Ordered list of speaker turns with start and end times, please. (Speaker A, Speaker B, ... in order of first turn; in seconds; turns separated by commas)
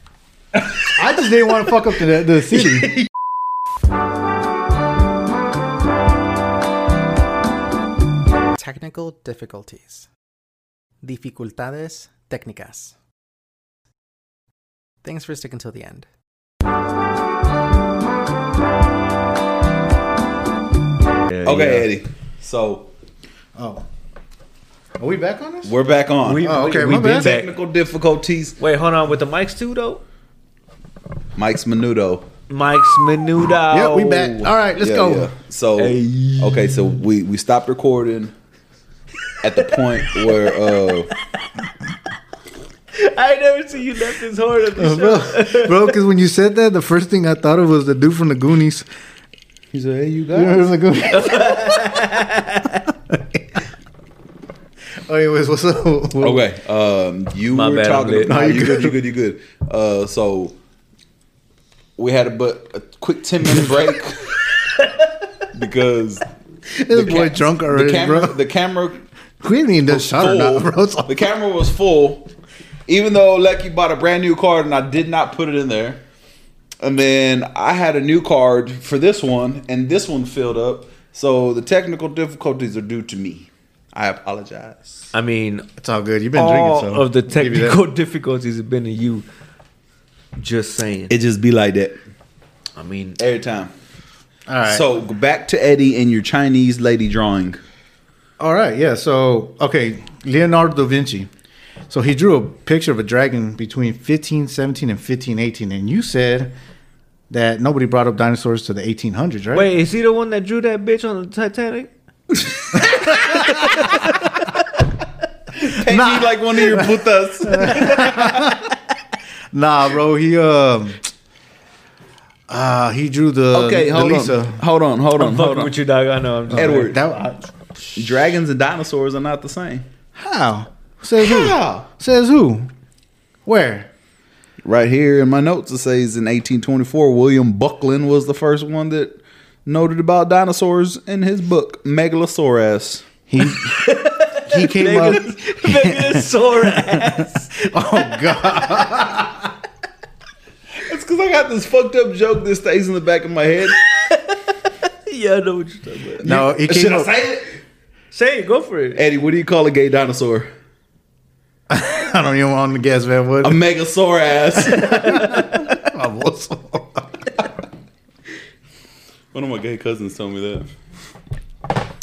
Speaker A: 0.9-2.9, Speaker B: 2.6-3.0, Speaker C: 8.6-10.1, Speaker C: 11.0-12.9, Speaker C: 15.0-16.1, Speaker B: 21.3-21.8, Speaker D: 21.4-22.9, Speaker A: 23.5-23.8, Speaker A: 25.0-25.7, Speaker D: 25.6-28.6, Speaker B: 26.2-27.5, Speaker A: 26.4-27.3, Speaker B: 28.6-30.0, Speaker D: 31.4-32.3, Speaker B: 32.5-34.5, Speaker A: 33.7-35.3, Speaker D: 34.8-38.3, Speaker B: 35.8-36.9, Speaker D: 39.4-41.1, Speaker B: 40.0-40.4, Speaker B: 42.9-46.0, Speaker A: 44.8-48.9, Speaker D: 49.7-50.7, Speaker A: 50.3-52.1, Speaker B: 51.1-52.9, Speaker A: 55.0-56.4, Speaker D: 56.2-60.5, Speaker B: 57.5-58.5, Speaker A: 58.2-58.9, Speaker D: 62.0-64.4, Speaker D: 65.5-66.2, Speaker A: 66.8-68.4, Speaker D: 66.9-69.0, Speaker A: 69.4-71.2, Speaker D: 69.9-72.3, Speaker D: 72.9-76.0, Speaker D: 76.8-85.1, Speaker B: 85.1-85.7, Speaker A: 85.8-87.8, Speaker B: 86.3-89.2, Speaker B: 90.3-91.1, Speaker D: 91.1-92.0, Speaker B: 92.8-93.2, Speaker D: 93.2-93.7, Speaker A: 94.5-94.9, Speaker D: 94.7-97.6, Speaker A: 98.4-101.3, Speaker A: 101.9-106.5, Speaker A: 107.3-109.7, Speaker B: 109.5-111.9, Speaker B: 112.7-114.4, Speaker A: 112.9-113.8, Speaker D: 115.6-118.3, Speaker A: 115.8-118.7, Speaker B: 117.8-118.3, Speaker A: 119.5-121.0, Speaker A: 122.5-124.6, Speaker D: 123.5-125.7, Speaker B: 125.2-126.9, Speaker A: 126.5-127.5, Speaker D: 126.5-127.0, Speaker D: 127.9-129.8, Speaker A: 130.2-132.7, Speaker D: 131.2-131.8, Speaker A: 133.4-133.9, Speaker D: 134.6-143.1, Speaker A: 143.3-149.5, Speaker B: 143.4-148.9, Speaker D: 150.8-153.7, Speaker B: 153.7-156.2, Speaker D: 156.2-157.5, Speaker A: 156.2-157.1, Speaker B: 158.1-159.0, Speaker D: 158.9-160.5, Speaker A: 161.7-163.6, Speaker D: 163.4-165.6, Speaker A: 164.7-167.3, Speaker B: 164.8-165.4, Speaker D: 169.3-170.7